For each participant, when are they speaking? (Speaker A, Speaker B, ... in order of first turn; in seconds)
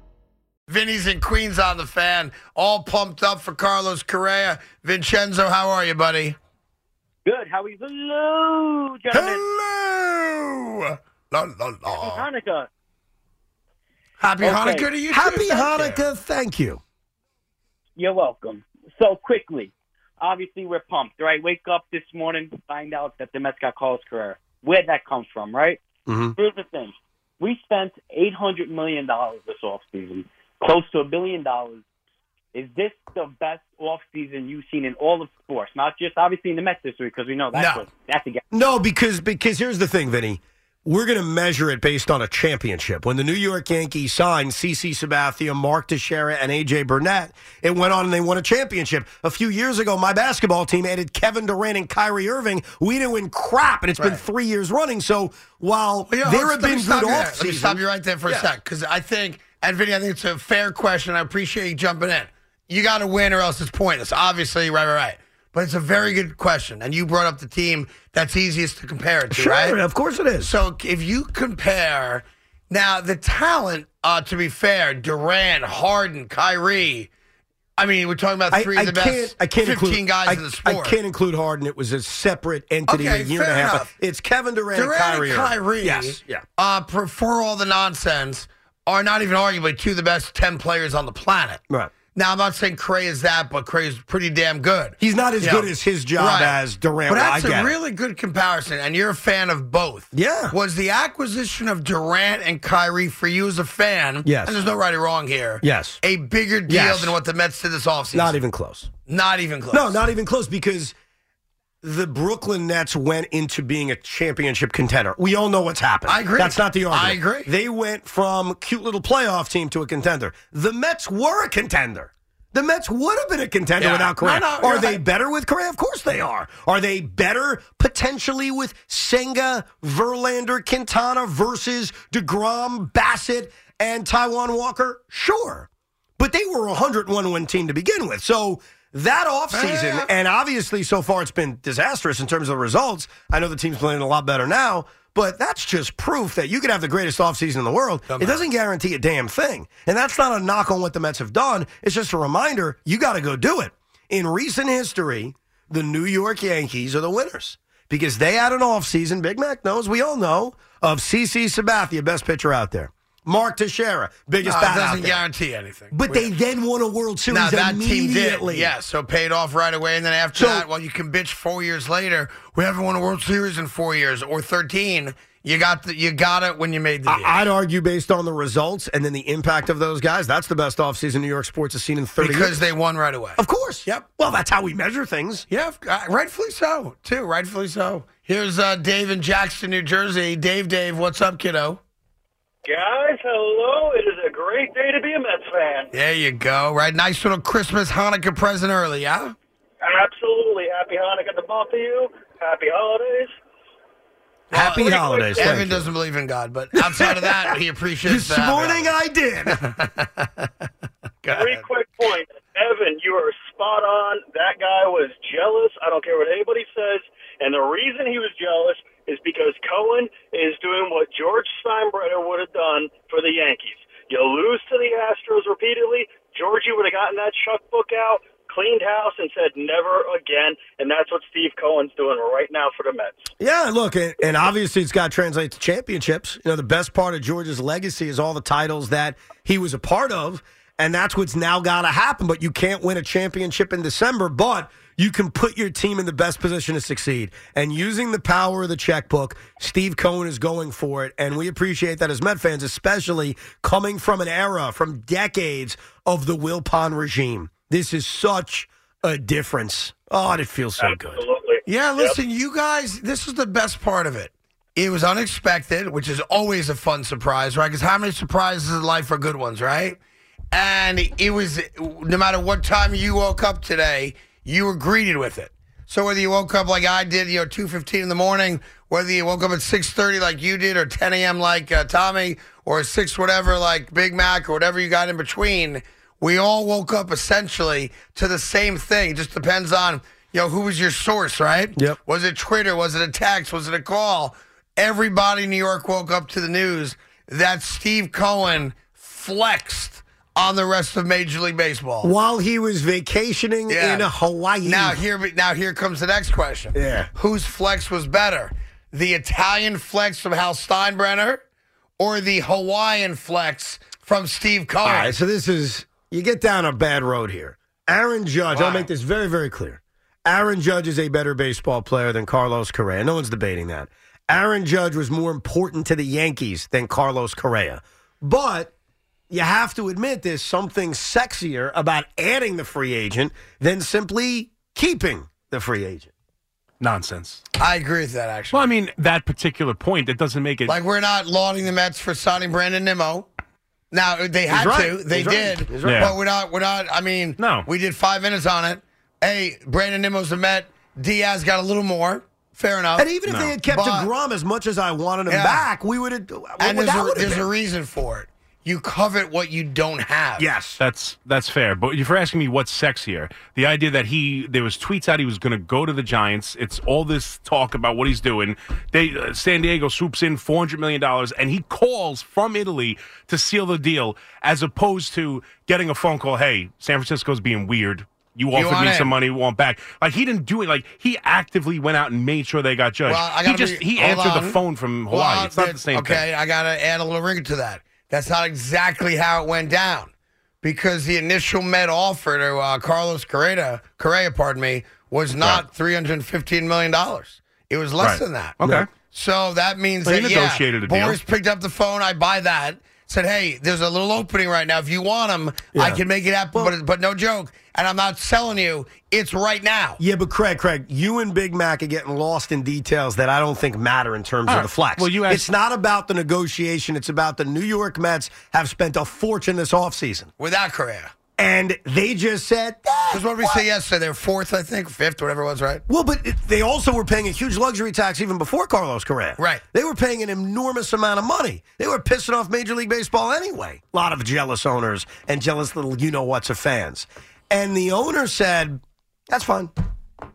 Speaker A: 0.7-6.4, 9.1-12.2, 14.2-16.0, 37.5-37.8, 56.1-69.8, 70.4-77.1, 77.8-81.0, 82.9-83.9, 84.7-91.6, 92.1-108.4, 109.1-110.0, 116.0-117.5, 123.8-125.0, 139.5-140.1, 148.1-148.4, 164.4-166.3, 167.3-177.3, 182.2-184.1, 185.5-191.8, 195.9-199.3, 204.5-210.5, 211.2-211.7, 261.6-270.0, 270.5-302.1, 303.7-304.1, 304.6-311.4, 312.0-315.1, 318.5-318.9, 337.6-338.7, 340.6-343.3, 343.9-353.1, 353.6-354.1, 355.3-355.7, 356.6-360.5, 378.5-379.1, 383.1-390.1, 390.6-410.0, 420.4-421.1, 423.1-425.8, 429.4-429.6
Speaker B: 7.2-9.4, 11.9-12.7, 14.4-15.0, 18.0-25.8, 26.4-31.8, 32.5-38.4
Speaker C: 15.1-16.8, 26.1-26.3, 38.5-58.5, 69.3-70.5, 78.5-86.4, 95.0-97.7, 100.1-100.5, 104.2-104.6, 105.6-106.0, 106.7-107.2, 108.1-108.9, 109.7-110.9, 111.8-165.2, 165.9-168.7, 170.3-170.7, 177.1-182.6, 183.3-185.5, 204.5-205.9, 206.8-207.5, 208.0-209.6, 233.4-261.2, 302.0-305.0, 306.7-307.1, 314.8-328.7, 329.3-336.1, 344.5-346.1, 352.9-357.5, 360.4-360.8, 405.7-406.7, 410.0-420.3, 421.4-423.6, 425.9-439.7
Speaker D: 192.6-195.9, 199.8-203.3, 204.8-205.3, 211.3-233.3, 260.8-262.2
Speaker E: 336.8-337.4, 338.5-340.8, 345.8-346.1, 347.4-347.7, 353.2-353.6, 360.8-386.2, 398.0-398.9, 400.0-401.2, 414.5-415.4